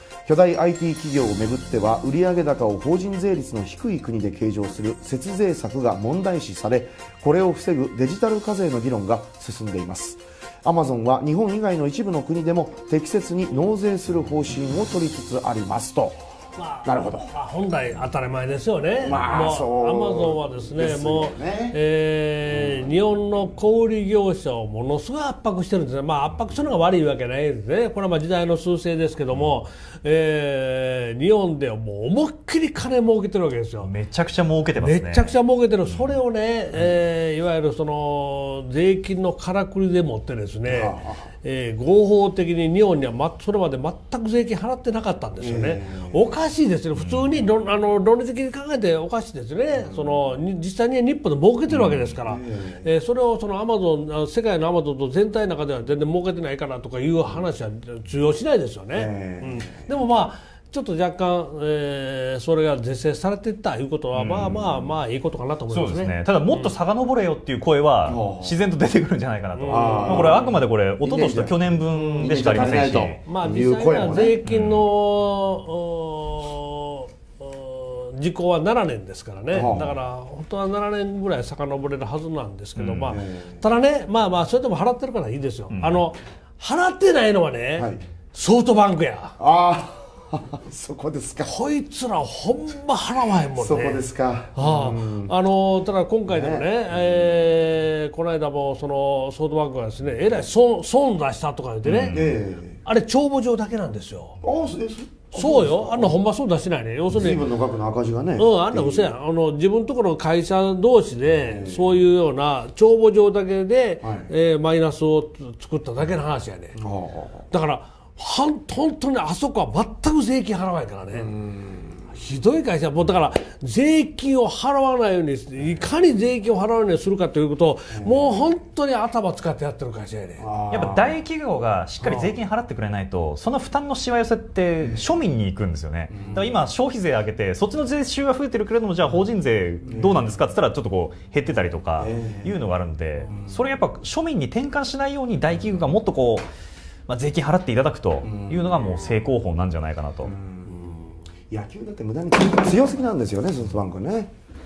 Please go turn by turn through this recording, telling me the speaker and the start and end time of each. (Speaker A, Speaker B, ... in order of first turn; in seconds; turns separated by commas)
Speaker A: 0.3-16.2, Speaker B: 16.6-33.9, Speaker A: 16.8-17.3, Speaker A: 19.0-21.8, Speaker A: 22.5-23.0, Speaker C: 33.8-35.4, Speaker B: 34.8-66.7, Speaker A: 40.7-41.3, Speaker A: 45.4-46.2, Speaker C: 47.0-47.4, Speaker A: 49.8-50.2, Speaker A: 51.7-52.9, Speaker A: 58.9-59.9, Speaker C: 64.1-64.7, Speaker C: 65.7-73.2, Speaker A: 68.0-68.6, Speaker B: 69.5-70.5, Speaker A: 69.7-74.4, Speaker B: 71.9-89.4, Speaker C: 74.5-74.9, Speaker A: 79.5-80.0, Speaker C: 82.8-83.2, Speaker A: 83.1-83.6, Speaker C: 85.7-86.1, Speaker A: 87.8-88.0, Speaker A: 89.4-91.5, Speaker B: 91.4-102.3, Speaker A: 93.5-95.3, Speaker A: 96.3-96.7, Speaker C: 101.8-102.2, Speaker A: 102.1-102.8, Speaker B: 102.8-104.4, Speaker A: 104.4-106.2, Speaker B: 105.3-107.5, Speaker A: 107.1-109.1, Speaker B: 108.4-116.8, Speaker A: 111.4-112.0, Speaker A: 114.0-114.3, Speaker A: 116.8-117.5, Speaker B: 117.5-121.3, Speaker A: 121.1-122.0, Speaker B: 122.1-130.5, Speaker A: 127.9-128.4, Speaker A: 130.4-131.2, Speaker C: 130.7-146.5, Speaker A: 136.1-136.5, Speaker A: 139.9-140.2, Speaker A: 142.0-142.6, Speaker A: 143.3-143.6, Speaker C: 147.1-150.3, Speaker A: 148.2-149.1, Speaker A: 150.2-154.3